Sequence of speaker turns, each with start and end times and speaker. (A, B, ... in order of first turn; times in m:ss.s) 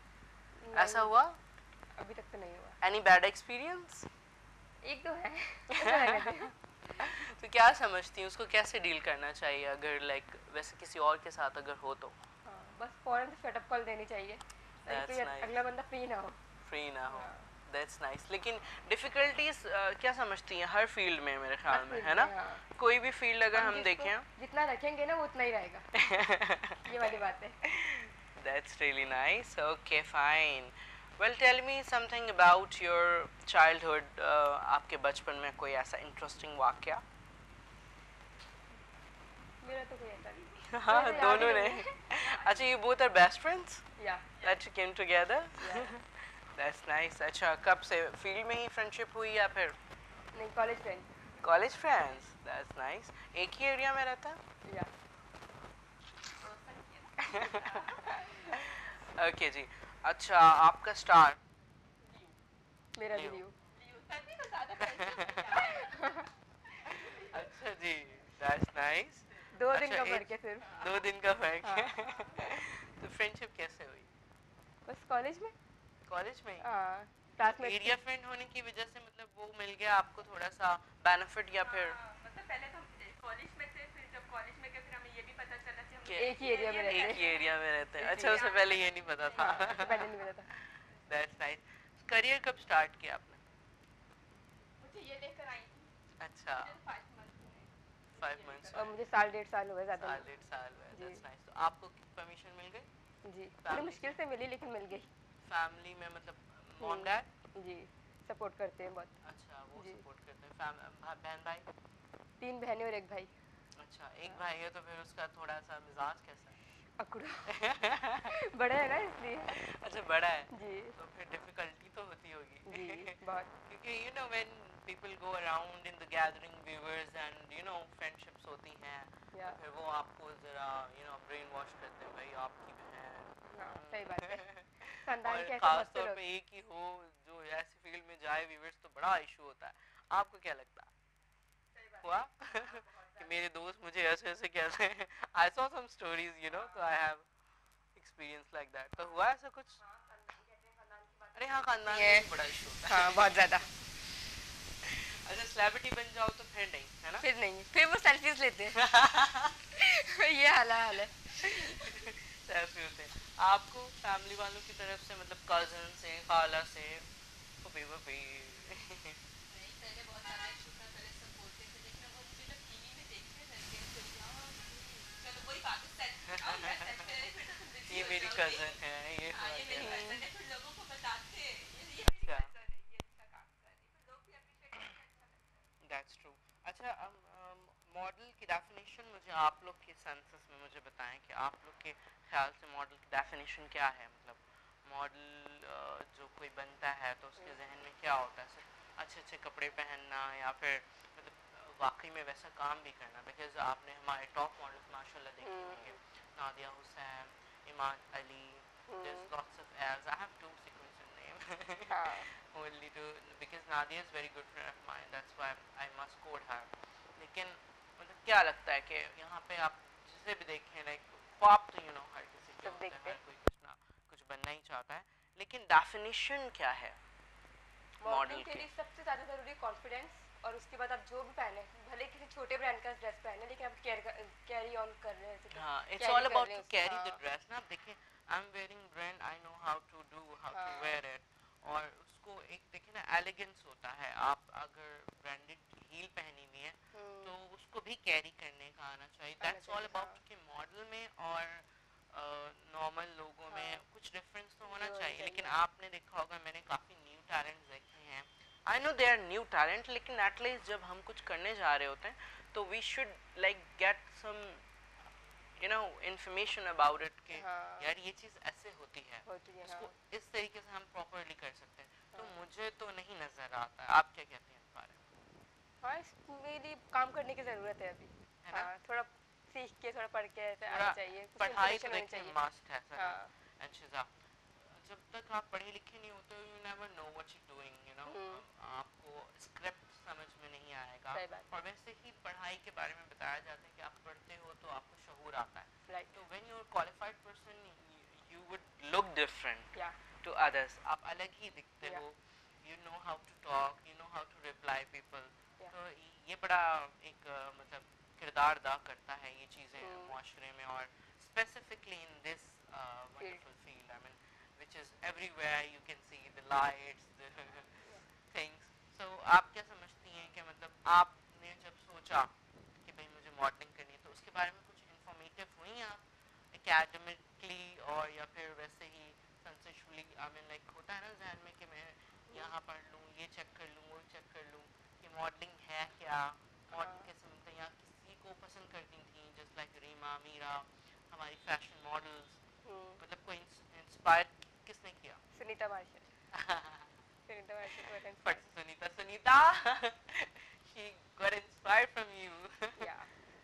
0:00.6-0:01.1 A
0:00.7-0:01.4 B
0:02.0-0:02.8 A
0:02.8-0:04.1 B
0:04.8-0:06.5 A
0:05.7-0:12.1 B
0:12.4-0:16.4 A
0:14.9-0:15.6 B
0:16.6-0:24.2 B
0:17.1-0:17.5 A
0:21.7-0:22.6 A
0:23.5-0:25.9 A
0:25.9-0:37.0 B
0:26.8-0:27.6 A
0:39.6-0:41.9 A
0:40.7-0:43.8 B
0:42.2-0:42.7 C
0:44.0-0:44.3 A
0:44.4-0:49.8 B
0:45.6-0:45.9 A
0:50.3-0:51.1 A
0:51.4-0:54.4 B
0:54.7-0:54.9 A
0:56.4-0:58.6 C
0:57.2-1:01.4 B
1:02.0-1:02.3 C
1:03.0-1:03.5 A
1:03.0-1:03.4 B
1:03.7-1:06.3 C
1:04.8-1:05.5 B
1:05.7-1:06.3 A
1:06.8-1:07.5 C
1:06.8-1:14.1 B
1:09.5-1:10.7 A
1:10.6-1:11.0 C
1:11.6-1:11.9 A
1:12.0-1:12.5 C
1:14.9-1:15.5 A
1:16.1-1:16.6 B
1:16.6-1:18.0 A
1:17.5-1:22.0 B
1:21.6-1:30.2 C
1:26.0-1:30.1 B
1:26.2-1:27.3 A
1:29.4-1:30.5 A
1:31.1-1:33.4 B
1:34.8-1:35.9 C
1:36.2-1:36.8 B
1:36.6-1:38.9 C
1:38.2-1:38.9 B
1:38.7-1:40.2 A
1:39.9-1:42.9 B
1:40.9-1:41.2 A
1:43.2-1:45.1 A
1:43.6-1:44.2 B
1:45.4-1:47.3 B
1:46.8-1:49.1 A
1:49.2-1:51.7 B
1:49.8-1:50.0 A
1:52.4-1:53.3 A
1:53.8-1:56.6 B
1:57.0-1:57.5 A
1:57.5-1:58.4 B
1:58.3-1:59.5 A
1:59.5-2:20.9 B
2:00.5-2:00.9 A
2:02.7-2:03.5 A
2:09.3-2:09.6 A
2:13.5-2:14.4 A
2:15.0-2:16.2 A
2:21.7-2:23.2 A
2:22.0-2:27.3 B
2:27.9-2:29.8 B
2:29.8-2:32.3 A
2:31.3-2:33.7 B
2:32.8-2:33.7 A
2:34.8-2:37.2 B
2:37.2-2:38.8 A
2:38.7-2:39.6 B
2:39.7-2:41.9 A
2:41.4-2:47.1 B
2:47.6-2:49.2 B
2:49.5-2:58.8 C
2:56.3-2:57.0 B
2:57.9-3:00.2 B
2:59.3-3:05.5 C
2:59.8-3:00.2 A
3:02.0-3:02.5 B
3:05.8-3:47.0 B
3:25.4-3:25.9 A
3:28.9-3:29.3 A
3:31.9-3:32.3 A
3:42.6-3:43.2 A
3:48.0-3:57.2 A
3:48.0-3:48.7 B
3:55.5-4:24.6 B
4:00.5-4:01.0 A
4:06.9-4:07.3 A
4:09.4-4:10.2 A
4:13.5-4:13.8 A
4:14.6-4:15.6 A
4:25.6-4:35.0 B
4:27.3-4:27.9 A
4:29.2-4:29.9 A
4:35.8-4:42.4 A
4:38.4-4:38.7 B
4:40.7-4:44.1 B
4:42.9-4:43.3 A
4:44.6-5:42.4 B
4:48.0-4:48.4 A
4:51.1-4:51.5 A
4:55.9-4:56.2 A
5:09.8-5:10.1 A
5:36.7-5:37.1 A
5:42.6-5:43.0 A
5:43.0-5:45.2 B
5:45.3-5:46.1 A
5:46.3-5:46.8 B
5:47.3-5:48.4 A
5:47.6-5:52.9 B
5:52.8-5:53.1 A